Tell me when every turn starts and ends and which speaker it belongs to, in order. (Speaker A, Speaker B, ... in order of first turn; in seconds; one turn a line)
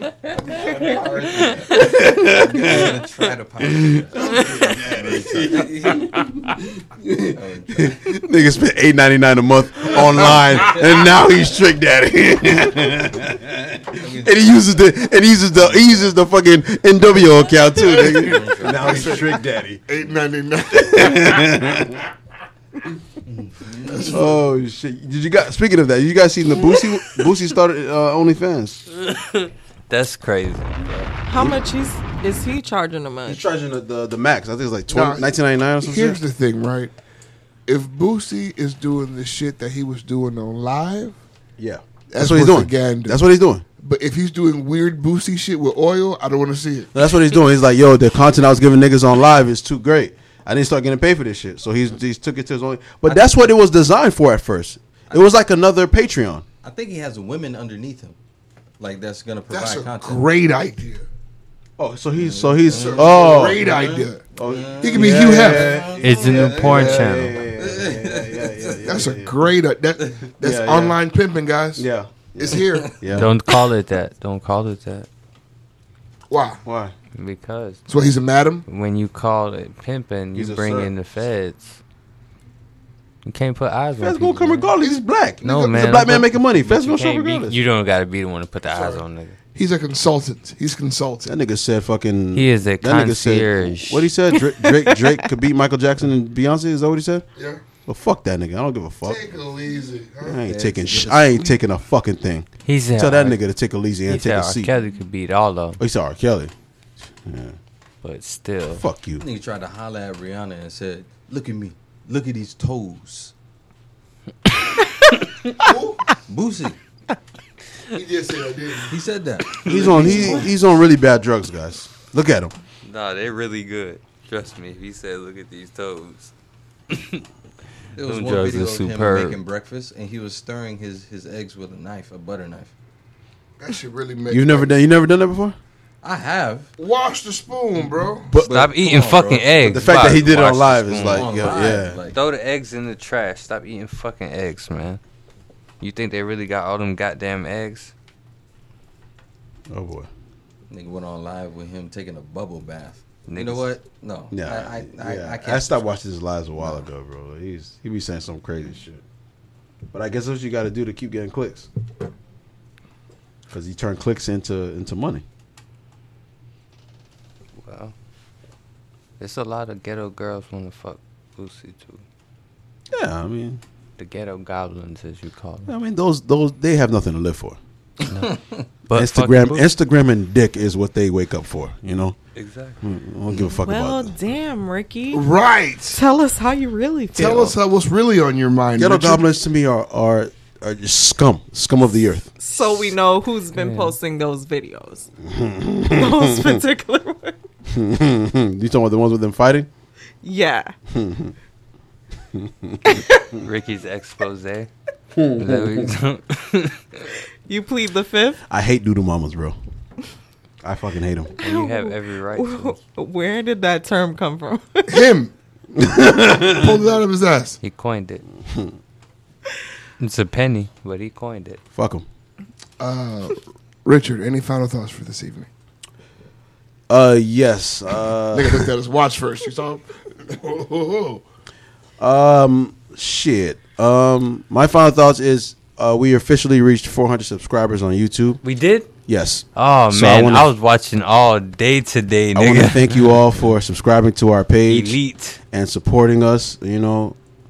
Speaker A: 0.3-6.2
Speaker B: 1.6-3.0
Speaker B: 3.6-19.8
Speaker A: 7.3-8.1
Speaker C: 10.1-10.8
Speaker A: 13.9-14.9
Speaker A: 15.6-16.1
Speaker C: 17.8-21.8
Speaker A: 18.1-19.2
Speaker B: 20.7-22.1
Speaker A: 23.3-24.2
Speaker C: 23.9-24.3
Speaker B: 24.1-28.9
Speaker D: 29.0-31.1
Speaker E: 31.3-33.4
Speaker B: 31.3-31.6
Speaker B: 33.3-36.2
Speaker C: 34.9-36.9
Speaker C: 37.7-41.1
Speaker B: 41.6-43.6
Speaker C: 42.1-43.2
Speaker C: 43.8-46.9
Speaker B: 46.9-56.5
Speaker A: 53.0-53.5
Speaker A: 56.6-58.1
Speaker A: 58.8-60.2
Speaker C: 59.5-61.1
Speaker B: 61.8-69.4
Speaker A: 62.2-63.2
Speaker C: 62.7-64.2
Speaker A: 64.4-68.8
Speaker C: 64.8-65.8
Speaker D: 66.0-67.4
Speaker C: 68.9-71.9
Speaker B: 70.4-71.0
Speaker B: 71.8-73.3
Speaker C: 72.4-72.9
Speaker A: 72.5-73.0
Speaker D: 73.0-75.1
Speaker C: 76.3-76.6
Speaker B: 76.7-76.9
Speaker D: 77.2-78.0
Speaker C: 77.9-78.7
Speaker D: 78.7-81.8
Speaker B: 80.3-80.9
Speaker D: 83.2-84.7
Speaker B: 84.0-87.6
Speaker D: 85.4-89.3
Speaker C: 88.7-91.3
Speaker B: 91.2-97.2
Speaker D: 92.3-94.2
Speaker B: 97.9-99.2
Speaker C: 99.0-100.4
Speaker B: 100.2-104.7
Speaker A: 100.5-101.6
Speaker D: 102.7-103.4
Speaker D: 104.1-105.8
Speaker B: 105.8-106.5
Speaker B: 107.2-107.6
Speaker D: 108.0-108.8
Speaker B: 108.7-109.2
Speaker A: 109.2-113.3
Speaker D: 115.2-115.5
Speaker C: 115.6-116.0
Speaker A: 116.3-116.8
Speaker C: 117.9-119.0
Speaker A: 118.9-120.5
Speaker B: 119.7-122.5
Speaker C: 119.7-120.0
Speaker D: 122.8-126.3
Speaker D: 126.9-127.2
Speaker A: 128.0-132.7
Speaker D: 128.0-129.4
Speaker C: 133.6-134.8
Speaker B: 134.3-135.6
Speaker A: 136.0-136.7
Speaker C: 136.8-138.3
Speaker B: 138.3-138.6
Speaker A: 138.4-140.2
Speaker D: 138.5-145.0
Speaker B: 139.6-142.0
Speaker A: 141.1-142.2
Speaker D: 145.8-147.9
Speaker B: 149.7-150.1
Speaker A: 150.7-155.9
Speaker D: 153.3-153.7
Speaker B: 154.3-159.0
Speaker A: 156.6-156.8
Speaker B: 159.9-161.7
Speaker B: 163.5-165.2
Speaker D: 167.6-167.9
Speaker D: 169.2-172.0
Speaker B: 172.9-173.6
Speaker D: 174.0-175.7
Speaker B: 175.7-177.6
Speaker D: 178.1-179.7
Speaker B: 178.9-182.2
Speaker D: 182.3-182.8
Speaker B: 182.8-184.2
Speaker E: 183.5-185.3
Speaker C: 185.1-186.0
Speaker E: 185.9-187.6
Speaker C: 187.2-189.2
Speaker B: 188.8-192.3
Speaker E: 192.4-195.1
Speaker D: 193.5-194.0
Speaker B: 195.2-196.6
Speaker E: 195.9-197.4
Speaker B: 197.7-199.7
Speaker E: 200.2-200.7
Speaker B: 200.9-201.3
Speaker B: 202.3-203.0
Speaker E: 202.8-203.3
Speaker D: 203.4-204.7
Speaker B: 205.2-205.9
Speaker D: 205.4-207.1
Speaker E: 207.5-208.4
Speaker B: 208.5-209.6
Speaker B: 210.6-211.3
Speaker E: 211.4-215.1
Speaker D: 211.4-212.8
Speaker C: 214.9-215.3
Speaker B: 215.8-216.7
Speaker C: 216.5-217.6
Speaker D: 217.6-218.2
Speaker B: 218.5-218.8
Speaker D: 220.0-221.6
Speaker B: 221.7-222.1
Speaker C: 222.8-225.5
Speaker B: 226.9-228.7
Speaker C: 228.3-231.2
Speaker B: 232.0-238.4
Speaker D: 238.4-238.9
Speaker B: 239.1-240.5
Speaker D: 239.6-243.2
Speaker B: 242.3-245.0
Speaker D: 244.7-245.4
Speaker B: 245.5-247.2